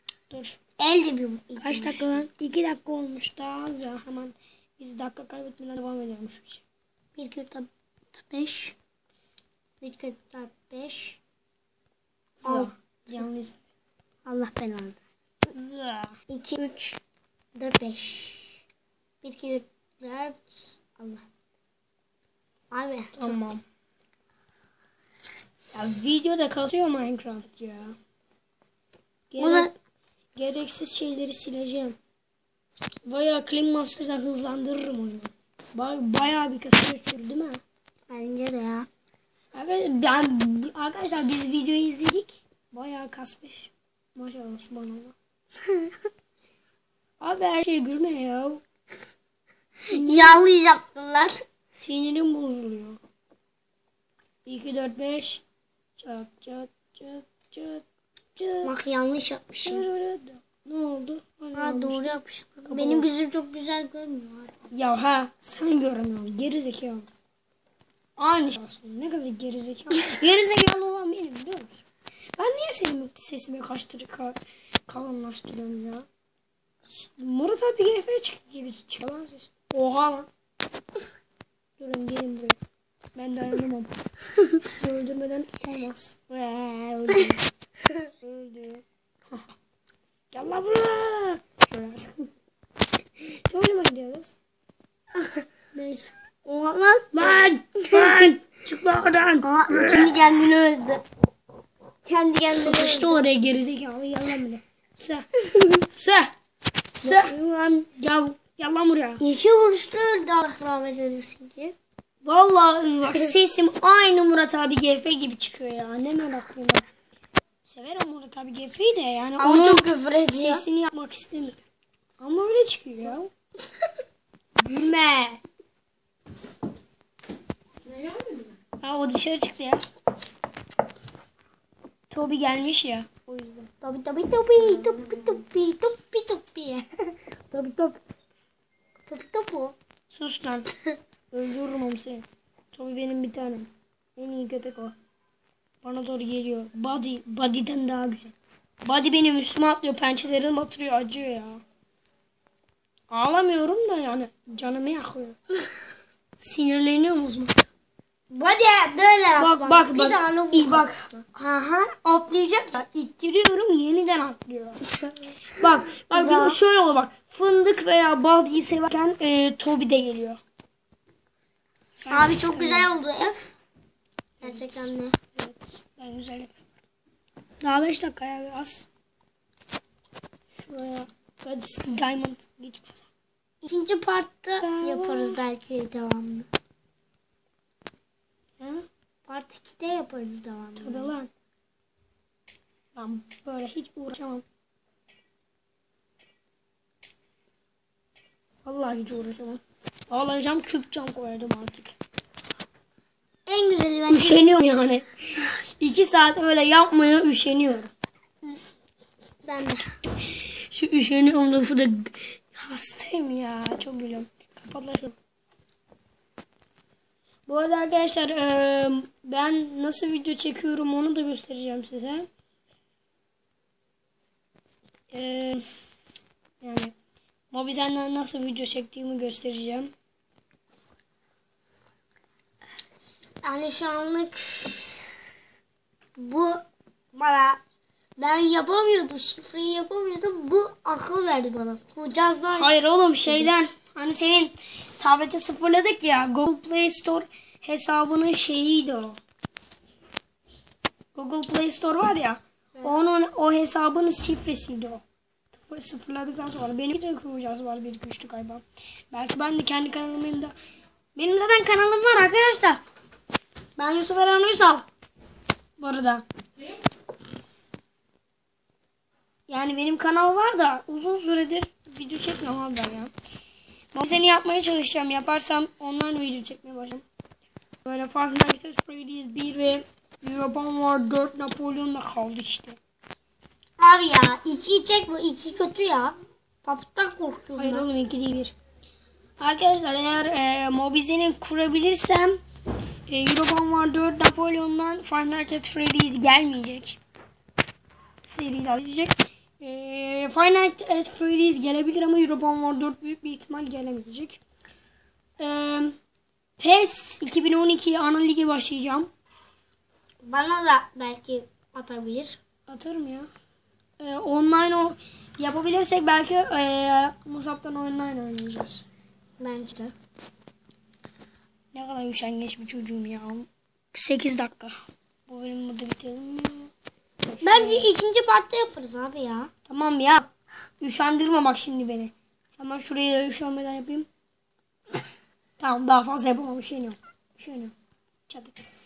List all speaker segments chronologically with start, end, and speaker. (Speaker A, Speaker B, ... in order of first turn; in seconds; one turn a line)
Speaker A: 0.3-0.6
Speaker B: 0.8-2.1
Speaker A: 1.6-6.6
Speaker B: 7.2-8.8
Speaker B: 9.8-11.2
Speaker A: 12.4-13.6
Speaker B: 12.4-13.2
Speaker B: 14.2-15.0
Speaker A: 15.5-16.1
Speaker B: 16.3-17.0
Speaker B: 17.6-18.6
Speaker B: 19.2-21.2
Speaker B: 22.7-23.4
Speaker A: 23.1-23.6
Speaker A: 25.7-28.0
Speaker A: 29.3-29.7
Speaker B: 29.4-29.7
Speaker A: 30.4-32.0
Speaker A: 33.0-37.6
Speaker B: 38.1-38.9
Speaker A: 39.5-45.1
Speaker A: 47.2-48.6
Speaker B: 49.9-51.4
Speaker A: 49.9-50.4
Speaker A: 51.7-53.0
Speaker A: 54.5-55.4
Speaker A: 56.0-57.8
Speaker A: 58.4-58.7
Speaker B: 58.6-59.9
Speaker A: 59.6-63.1
Speaker B: 61.5-64.5
Speaker A: 64.7-67.1
Speaker A: 68.2-71.8
Speaker A: 72.4-76.1
Speaker A: 76.8-80.3
Speaker A: 81.8-82.6
Speaker A: 83.1-83.9
Speaker A: 84.5-87.4
Speaker A: 88.2-89.5
Speaker A: 90.3-92.2
Speaker A: 93.2-94.4
Speaker B: 95.2-95.4
Speaker A: 95.7-96.1
Speaker B: 96.4-98.3
Speaker A: 97.1-100.2
Speaker B: 99.4-101.0
Speaker B: 102.1-103.3
Speaker A: 102.4-105.2
Speaker A: 105.8-106.3
Speaker A: 107.0-109.2
Speaker B: 107.0-107.3
Speaker B: 109.2-111.7
Speaker A: 112.2-116.8
Speaker A: 117.6-121.6
Speaker B: 119.4-120.6
Speaker A: 122.2-123.3
Speaker A: 124.6-125.4
Speaker A: 128.8-129.8
Speaker A: 132.1-133.7
Speaker B: 133.7-137.1
Speaker A: 137.5-138.0
Speaker B: 139.1-139.8
Speaker A: 140.1-140.7
Speaker A: 141.3-144.9
Speaker A: 145.8-151.6
Speaker A: 153.1-155.4
Speaker A: 156.4-157.7
Speaker B: 158.3-161.2
Speaker A: 159.4-164.8
Speaker A: 165.5-170.4
Speaker B: 166.1-166.6
Speaker A: 171.9-172.9
Speaker B: 172.1-173.6
Speaker B: 174.4-175.1
Speaker A: 174.4-176.6
Speaker A: 177.6-178.9
Speaker A: 180.5-183.1
Speaker B: 183.6-186.5
Speaker A: 184.6-185.4
Speaker A: 188.6-188.8
Speaker B: 189.2-191.1
Speaker A: 190.8-191.3
Speaker A: 192.9-194.4
Speaker A: 198.6-201.9
Speaker B: 203.5-204.5
Speaker A: 204.1-207.9
Speaker B: 209.4-209.8
Speaker A: 210.2-215.2
Speaker A: 217.5-222.3
Speaker A: 225.1-225.7
Speaker A: 226.6-226.9
Speaker A: 227.5-229.9
Speaker B: 233.4-235.1
Speaker B: 236.2-237.6
Speaker B: 238.2-242.7
Speaker A: 242.5-249.2
Speaker B: 243.2-243.5
Speaker A: 251.1-260.5
Speaker A: 261.1-262.8
Speaker A: 263.8-264.9
Speaker A: 265.8-266.2
Speaker A: 269.5-273.1
Speaker A: 273.9-277.0
Speaker A: 277.8-282.8
Speaker B: 283.8-287.9
Speaker A: 287.6-288.5
Speaker A: 289.4-292.4
Speaker A: 293.1-297.0
Speaker A: 298.3-304.4
Speaker A: 305.4-306.0
Speaker A: 306.6-309.1
Speaker B: 310.2-312.4
Speaker A: 312.7-313.3
Speaker A: 314.0-318.8
Speaker B: 319.4-319.9
Speaker A: 321.7-326.7
Speaker A: 327.2-327.9
Speaker B: 327.4-329.5
Speaker A: 329.6-330.3
Speaker A: 330.8-334.1
Speaker A: 335.6-337.7
Speaker A: 338.3-338.6